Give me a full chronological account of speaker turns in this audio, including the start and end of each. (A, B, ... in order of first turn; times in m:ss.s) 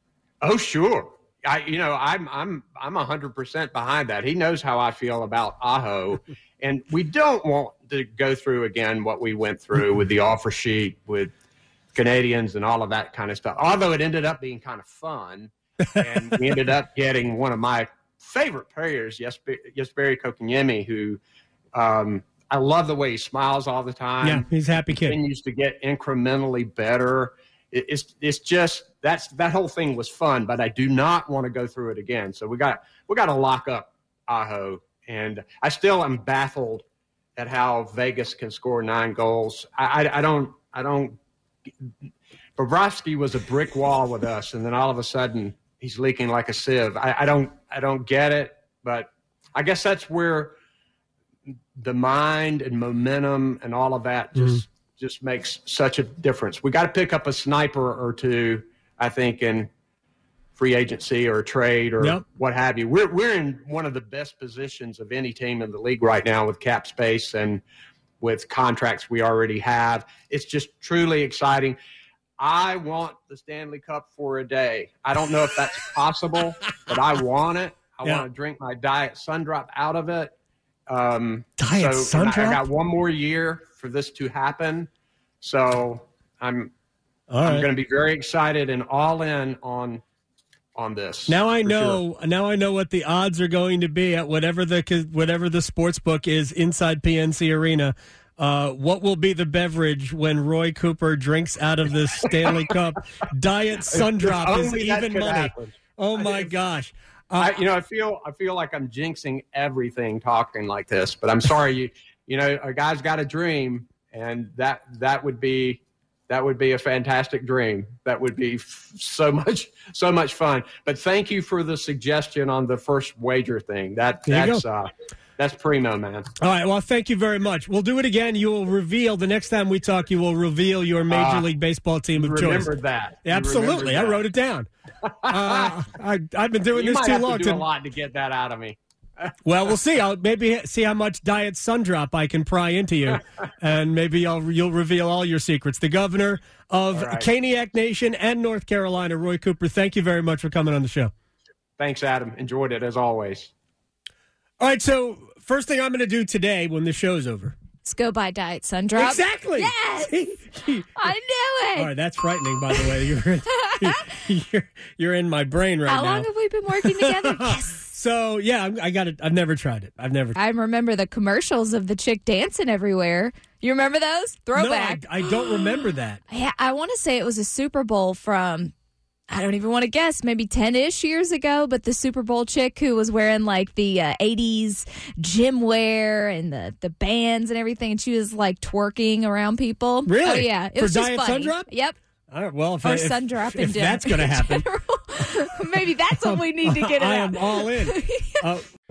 0:00.4-0:11.3 A
0:11.9-0:21.2 A
0:21.7-0:36.8 A
0:24.2-0:25.2 B
0:37.4-0:41.2 A
0:42.6-0:50.5 A
0:51.8-0:59.7 A
0:54.4-0:54.6 B
1:00.6-1:07.6 A
1:08.2-1:11.8 A
1:12.4-1:20.3 A
1:20.9-1:24.9 A
1:21.6-1:22.6 B
1:25.4-1:26.7 A
1:27.3-1:27.6 B
1:27.4-1:30.0 A
1:30.8-1:32.0 A
1:31.3-1:47.5 B
1:44.0-1:46.5 A
1:47.4-2:06.3 A
2:04.3-2:04.6 B
2:06.4-2:12.7 B
2:11.1-2:11.5 A
2:12.1-2:14.2 A
2:13.2-2:14.7 B
2:15.2-2:15.7 A
2:15.3-2:17.6 B
2:16.7-2:18.8 A
2:19.4-2:31.1 B
2:26.9-2:27.3 A
2:31.8-2:33.5 A
2:34.6-2:37.6 B
2:37.8-2:40.2 C
2:38.9-2:40.9 B
2:41.0-2:41.9 C
2:41.7-2:46.3 B
2:45.9-2:47.9 C
2:46.8-2:50.4 B
2:50.4-2:58.7 C
2:54.5-2:56.2 B
2:59.3-3:12.0 C
3:10.0-3:11.7 B
3:12.3-3:14.7 B
3:12.8-3:18.3 C
3:16.2-3:18.6 B